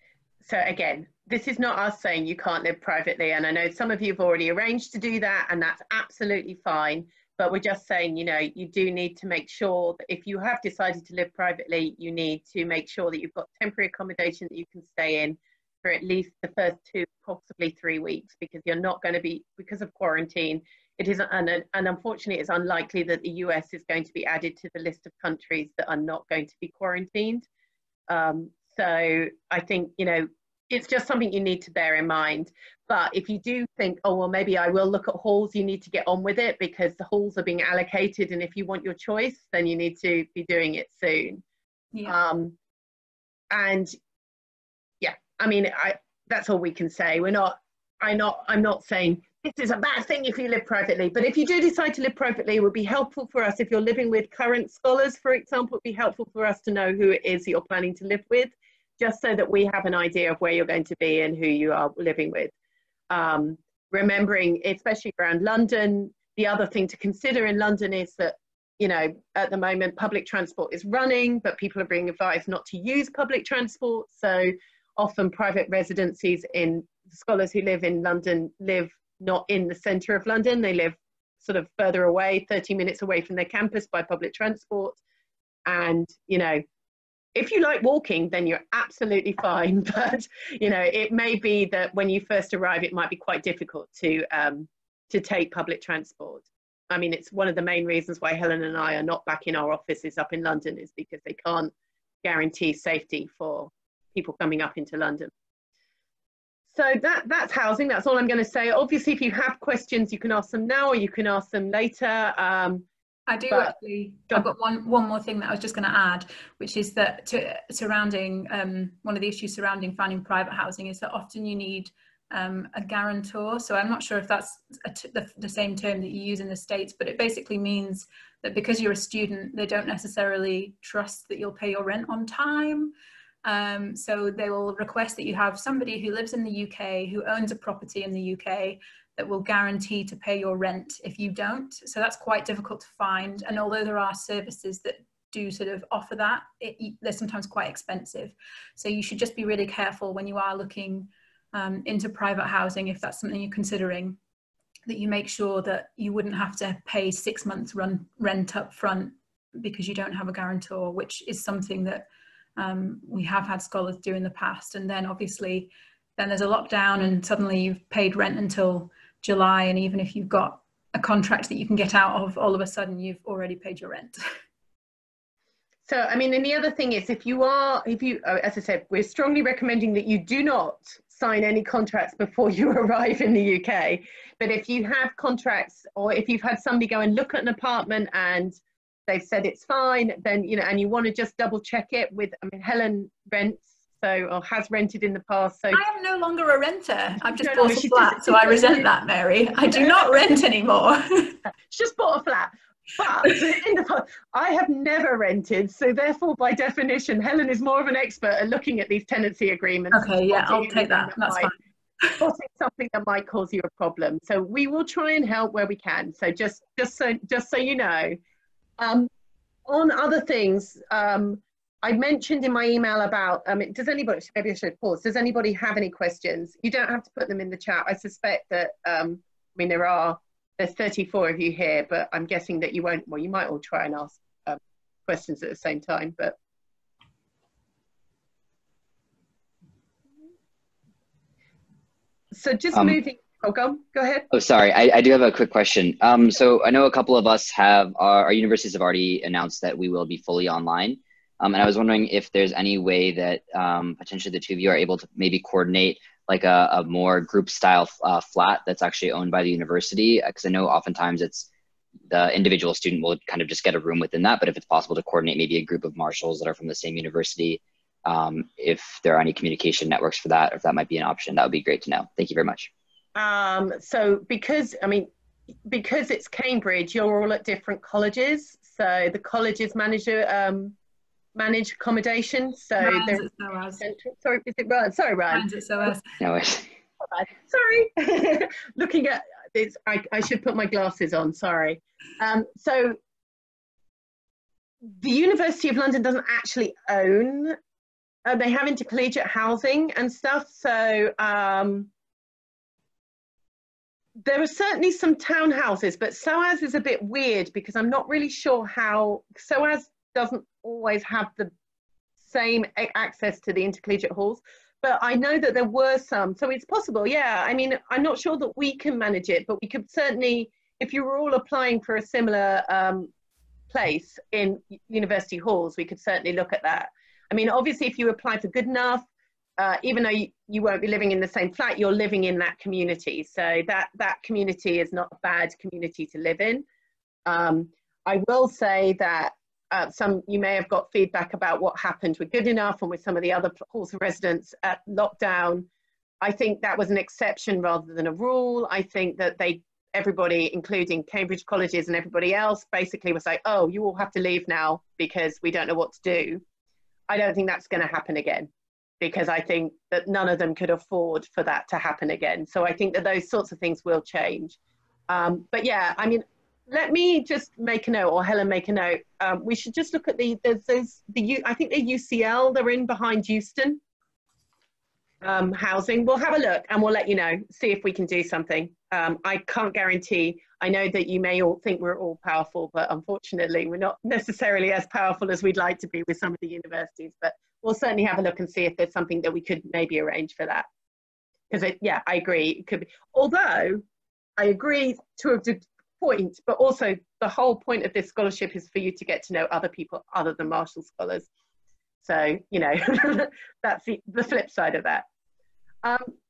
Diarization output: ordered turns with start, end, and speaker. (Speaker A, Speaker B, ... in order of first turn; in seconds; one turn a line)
Speaker A: 0.5-27.5
Speaker A: 28.1-41.4
Speaker A: 42.1-42.5
Speaker A: 43.5-44.0
Speaker A: 45.0-62.5
Speaker A: 63.1-85.0
Speaker A: 85.7-86.6
Speaker A: 87.3-101.7
Speaker A: 102.2-105.3
Speaker A: 106.7-112.9
Speaker B: 113.3-132.9
Speaker A: 113.5-113.8
Speaker B: 133.4-154.2
Speaker B: 154.9-174.2
Speaker A: 175.9-188.6
Speaker A: 189.1-195.8
Speaker B: 195.7-201.4
Speaker A: 197.3-198.9
Speaker A: 201.7-211.5
Speaker B: 209.9-212.2
Speaker A: 212.2-218.2
Speaker A: 218.8-219.1
Speaker A: 219.7-236.4
Speaker A: 242.3-244.3
Speaker C: 244.3-261.5
Speaker C: 262.1-272.7
Speaker A: 273.2-275.1
Speaker A: 275.7-280.8
Speaker A: 281.4-283.3
Speaker B: 282.8-283.9
Speaker A: 283.8-285.5
Speaker B: 285.3-286.1
Speaker C: 286.2-286.7
Speaker A: 287.1-293.0
Speaker A: 295.0-297.6
Speaker A: 298.2-301.9
Speaker A: 304.2-311.5
Speaker A: 312.2-323.1
Speaker A: 323.7-329.1
Speaker A: 329.6-336.6
Speaker A: 337.3-345.7
Speaker A: 346.2-356.4
Speaker A: 357.1-358.5
Speaker A: 359.0-364.6
Speaker A: 365.1-373.8
Speaker A: 375.2-390.7
Speaker A: 391.5-393.8
Speaker A: 394.4-401.3
Speaker A: 402.0-405.1
Speaker A: 405.8-406.1